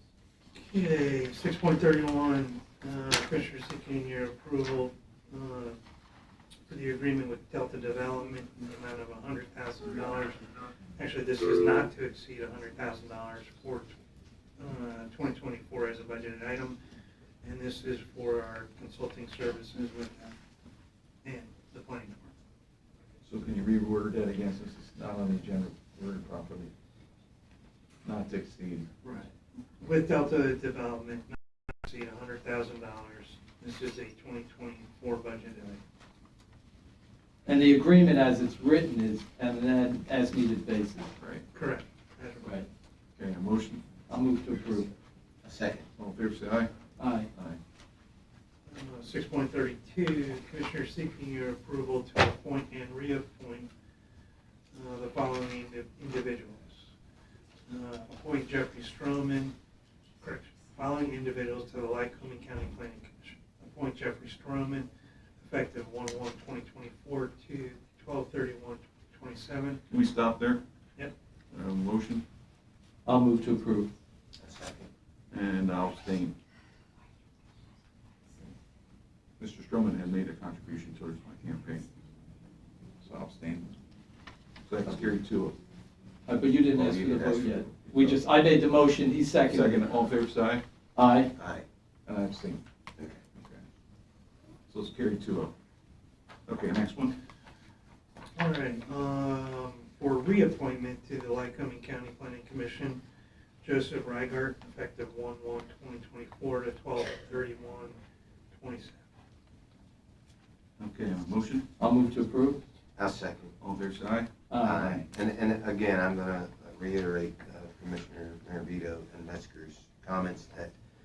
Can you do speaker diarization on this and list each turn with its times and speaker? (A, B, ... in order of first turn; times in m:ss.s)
0:00.5-0:05.8 A
0:06.7-0:13.9 A
0:14.6-0:16.8 A
0:17.4-0:20.4 A
0:21.2-0:22.3 A
0:23.2-0:26.7 B
0:28.0-0:28.9 B
0:29.0-0:35.8 A
0:37.5-0:41.1 C
0:41.5-0:42.6 A
0:42.4-0:42.7 C
0:43.2-0:43.8 B
0:44.1-0:44.9 C
0:45.4-0:45.8 D
0:46.0-0:46.7 B
0:47.0-0:47.3 C
0:48.7-0:53.7 A
0:54.7-0:56.8 A
0:57.7-0:59.6 A
1:00.2-1:04.9 A
1:05.4-1:09.8 A
1:10.0-1:10.6 B
1:11.5-1:12.2 B
1:13.1-1:13.9 C
1:14.4-1:14.9 D
1:15.3-1:16.3 B
1:19.4-1:21.8 B
1:23.0-1:23.7 B
1:24.7-1:25.5 B
1:26.3-1:29.8 C
1:26.7-1:27.7 D
1:29.5-1:30.6 B
1:31.0-1:31.3 C
1:31.4-1:31.6 D
1:32.1-1:32.6 B
1:34.7-1:35.5 B
1:36.5-1:37.2 B
1:38.4-1:43.0 A
1:43.6-1:48.0 A
1:48.5-1:49.0 A
1:50.8-1:51.6 B
1:51.8-1:52.6 C
1:53.0-1:53.5 D
1:53.6-1:54.3 B
1:54.5-1:55.0 C
1:54.6-2:00.7 D